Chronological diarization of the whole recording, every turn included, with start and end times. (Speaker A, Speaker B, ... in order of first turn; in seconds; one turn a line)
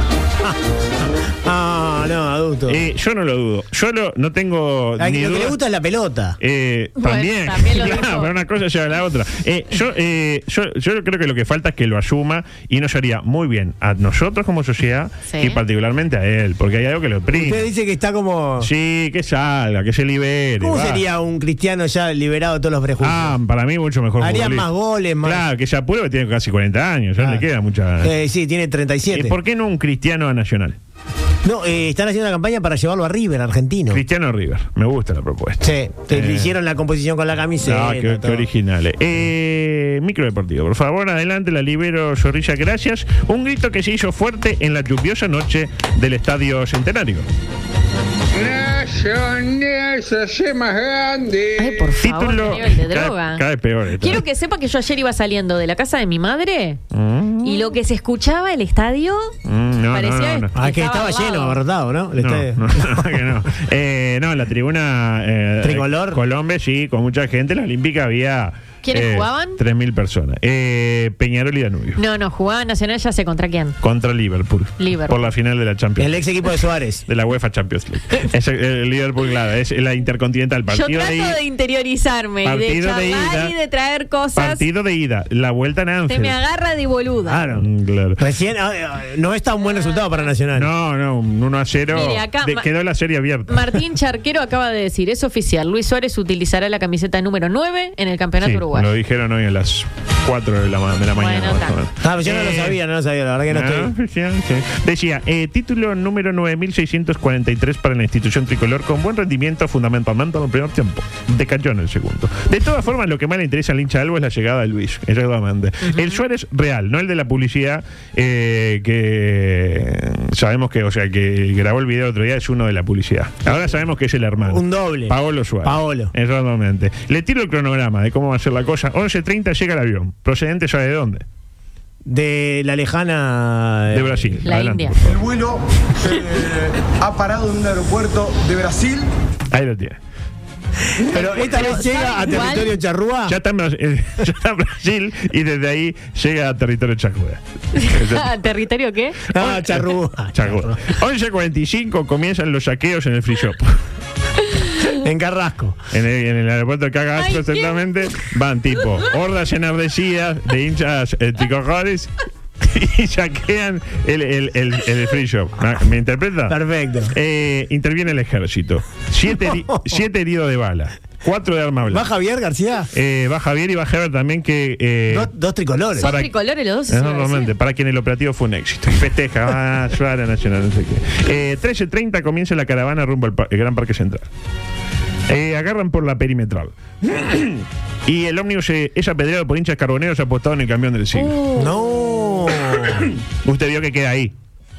Speaker A: 1.4-2.8
Speaker B: 2.7-5.6
Speaker A: 5.0-6.4
Speaker B: 6.4-17.7
Speaker C: 7.0-8.3
Speaker C: 15.3-15.6
Speaker A: 17.3-18.7
Speaker B: 18.6-21.0
Speaker A: 20.6-23.4
Speaker B: 23.0-24.7
Speaker A: 24.2-25.4
Speaker B: 25.2-28.1
Speaker A: 27.2-27.4
Speaker A: 28.0-29.4
Speaker B: 29.1-30.8
Speaker A: 31.4-34.0
Speaker B: 33.9-36.5
Speaker A: 35.6-38.5
Speaker B: 37.6-47.3
Speaker D: 48.3-51.9
Speaker C: 51.6-53.4
Speaker B: 52.0-54.2
Speaker C: 54.0-56.8
Speaker B: 56.9-57.7
Speaker C: 57.4-59.3
Speaker B: 59.5-60.5
Speaker C: 59.9-61.6
Speaker A: 60.5-63.3
Speaker B: 62.2-72.0
Speaker A: 65.6-66.2
Speaker C: 68.8-69.6
Speaker C: 72.0-73.8
Speaker B: 73.8-76.3
Speaker C: 74.8-75.3
Speaker A: 76.0-77.0
Speaker B: 77.1-81.4
Speaker C: 80.7-84.6
Speaker B: 82.4-83.5
Speaker B: 84.3-86.4
Speaker C: 86.1-87.5
Speaker A: 87.3-87.7
Speaker B: 87.5-88.2
Speaker A: 88.2-90.7
Speaker B: 90.5-93.8
Speaker C: 91.9-92.7
Speaker C: 93.5-98.9
Speaker B: 98.4-102.8
Speaker C: 101.2-101.8
Speaker A: 102.0-103.9
Speaker B: 103.5-131.2
Speaker C: 115.9-116.2
Speaker A: 124.5-126.1
Speaker A: 132.1-134.3
Speaker B: 133.9-135.2
Speaker C: 134.4-135.0
Speaker E: 135.0-139.1
Speaker B: 139.5-140.0
Speaker A: 141.0-143.4
Speaker C: 141.1-142.8
Speaker B: 143.3-148.4
Speaker C: 147.8-149.2
Speaker B: 149.3-153.8
Speaker A: 149.3-150.8
Speaker C: 154.6-154.9
Speaker A: 155.0-155.8
Speaker B: 155.9-166.6
Speaker C: 157.2-157.8
Speaker A: 166.5-167.1
Speaker B: 167.1-172.1
Speaker A: 171.9-172.9
Speaker B: 172.9-175.3
Speaker A: 175.1-176.1
Speaker C: 176.0-177.5
Speaker B: 176.0-176.3
Speaker B: 176.9-184.3
Speaker B: 185.3-191.3
Speaker C: 191.1-191.7
Speaker A: 191.6-193.1
Speaker B: 193.4-194.3